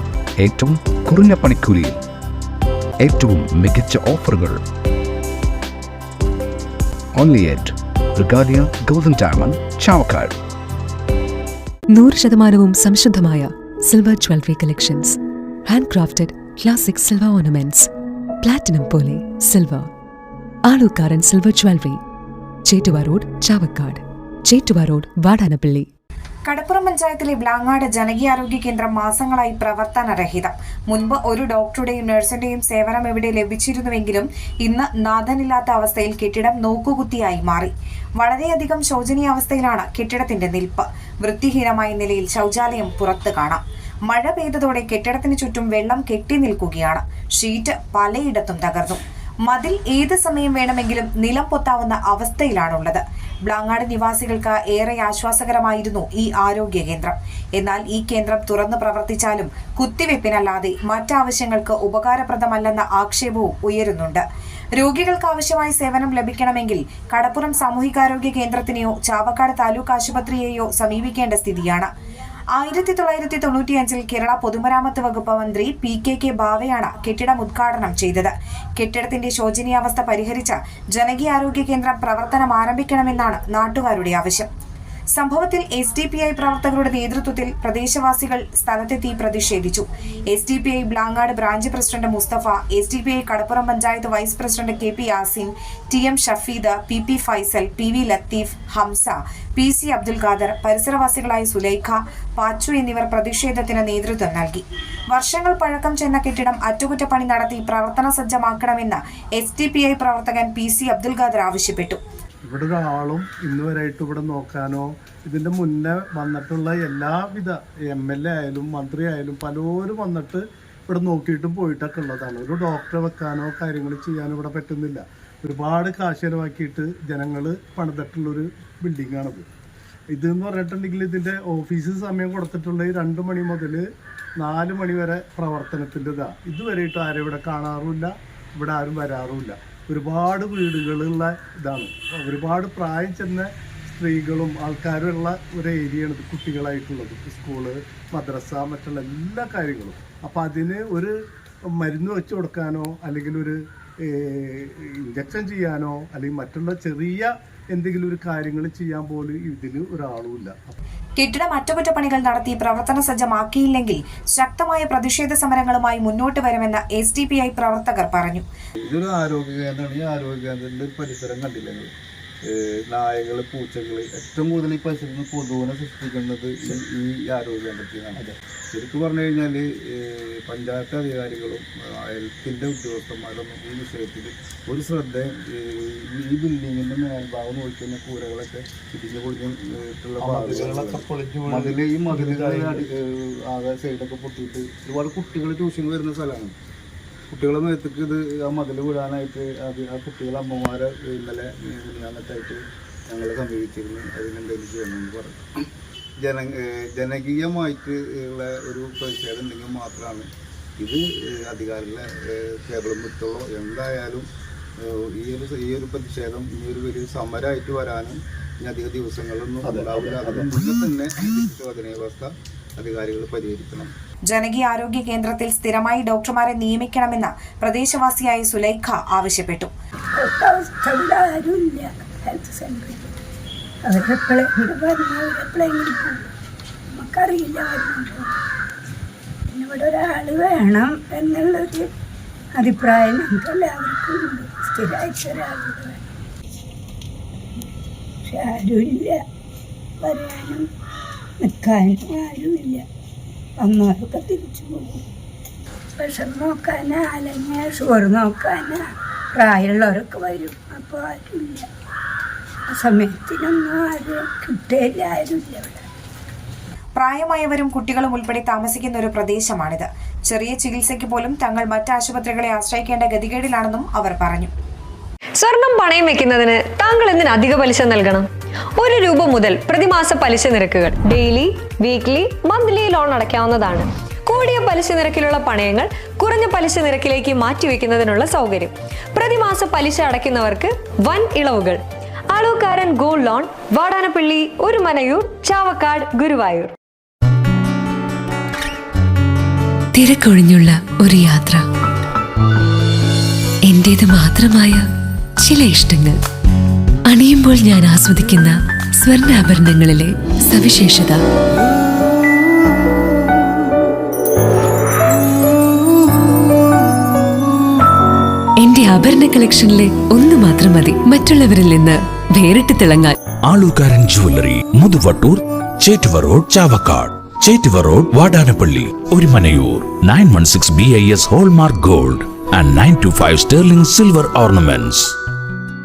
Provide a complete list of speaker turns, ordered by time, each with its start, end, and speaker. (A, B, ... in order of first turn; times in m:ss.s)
0:00.4-0:02.0 A
0:03.0-0:04.6 A
0:07.1-0:10.4 A
0:11.9-0:17.9 B
0:18.4-0:19.9 B
0:20.6-0:22.0 B
0:22.6-0:25.9 B
0:26.5-1:04.2 C
1:04.8-1:11.9 C
1:12.5-1:24.5 C
1:25.1-1:52.0 C
1:52.4-2:09.4 D
2:10.1-2:13.8 D
2:14.4-2:31.1 D
2:31.7-2:40.8 D
2:41.2-2:48.4 C
2:48.8-2:51.9 E
2:52.4-3:16.5 E
3:10.2-3:12.9 D
3:17.3-3:25.4 E
3:26.2-3:34.3 E
3:34.8-3:43.9 E
3:39.6-3:40.5 D
3:44.3-3:49.7 C
3:50.2-3:53.1 F
3:53.8-3:56.3 F
3:56.9-3:58.3 F
3:59.5-4:01.9 F
4:02.5-4:06.1 F
4:08.2-4:09.2 F
4:10.0-4:10.7 F
4:11.4-4:12.8 F
4:13.6-4:15.0 F
4:16.0-4:18.8 F
4:19.3-4:21.7 F
4:22.7-4:25.8 F
4:27.0-4:34.5 C
4:35.4-4:38.3 G
4:38.8-4:51.8 G
4:52.3-4:56.7 G
4:59.9-5:01.6 B
5:03.6-5:06.2 B
5:07.1-5:11.2 B
5:18.6-5:23.2 B
5:23.4-5:35.1 H